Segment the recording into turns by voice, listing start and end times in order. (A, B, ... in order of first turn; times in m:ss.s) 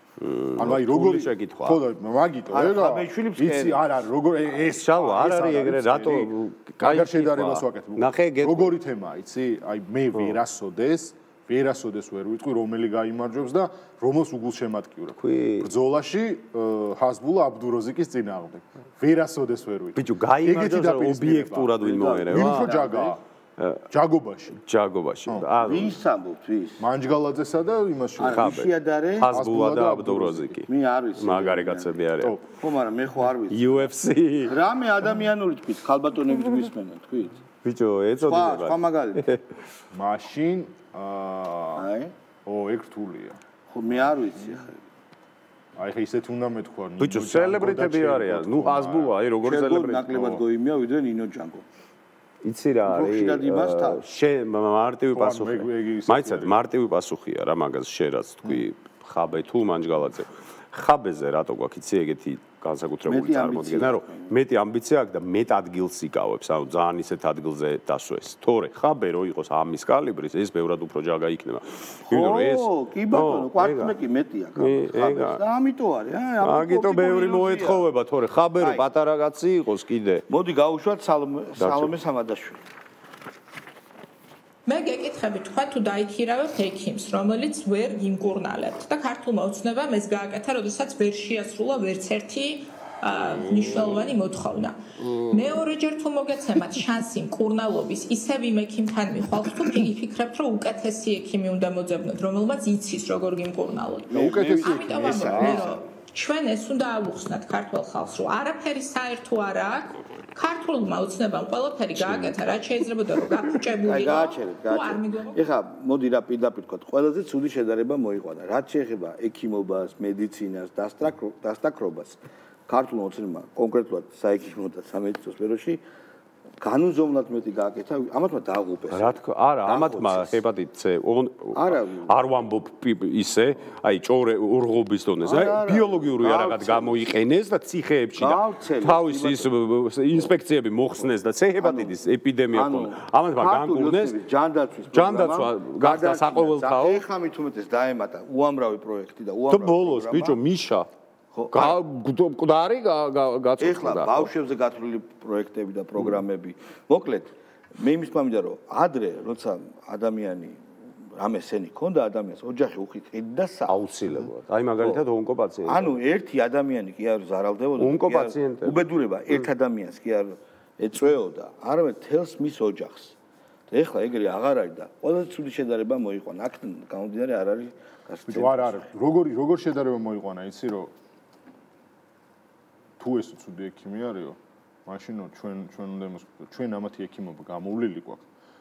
0:00.2-0:01.8 A
0:00.6-0:23.2 B
0:02.5-0:04.0 C
0:04.7-0:08.7 A
0:15.2-0:15.7 A
0:20.0-0:22.8 A
0:21.8-0:23.2 C
0:23.6-0:23.8 A
0:23.9-0:24.6 B
0:24.6-0:26.0 A
0:25.6-0:26.8 C
0:26.8-0:28.6 B
0:28.2-0:29.3 C
0:28.3-0:32.4 A
0:29.3-0:30.6 B
0:30.7-0:31.9 C
0:32.6-0:33.9 C
0:33.5-0:34.6 A
0:34.5-0:37.4 C
0:37.6-0:39.4 A
0:38.2-0:39.2 C
0:39.9-0:41.9 B
0:41.8-0:42.1 C
0:42.4-0:43.4 B
0:43.7-0:44.8 C
0:45.8-0:49.2 B
0:47.0-0:50.4 A
0:49.4-0:51.6 C
0:52.4-1:13.9 A
0:52.9-0:54.0 C
0:55.1-0:56.6 B
1:03.1-1:04.3 C
1:12.1-1:17.8 C
1:14.6-1:15.4 A
1:16.4-1:20.2 A
1:18.6-1:18.8 C
1:20.3-1:22.6 C
1:21.6-1:21.9 A
1:24.6-1:55.4 D
1:35.1-1:35.6 A
1:44.1-1:45.8 B
1:52.0-1:52.4 A
1:53.8-2:05.8 C
2:06.6-2:10.4 C
2:08.9-2:24.2 A
2:11.6-2:12.1 C
2:15.2-2:17.0 C
2:18.2-2:19.5 C
2:21.6-2:21.9 C
2:22.5-2:30.4 C
2:24.9-2:27.0 A
2:29.5-2:30.9 A
2:31.4-2:31.8 C
2:31.5-2:34.3 A
2:33.6-2:40.6 C
2:41.2-2:43.7 C
2:43.7-2:46.0 A
2:45.6-2:53.1 C
2:47.8-2:49.4 A
2:53.7-2:58.9 C
2:58.3-3:00.9 B
3:03.0-3:08.2 B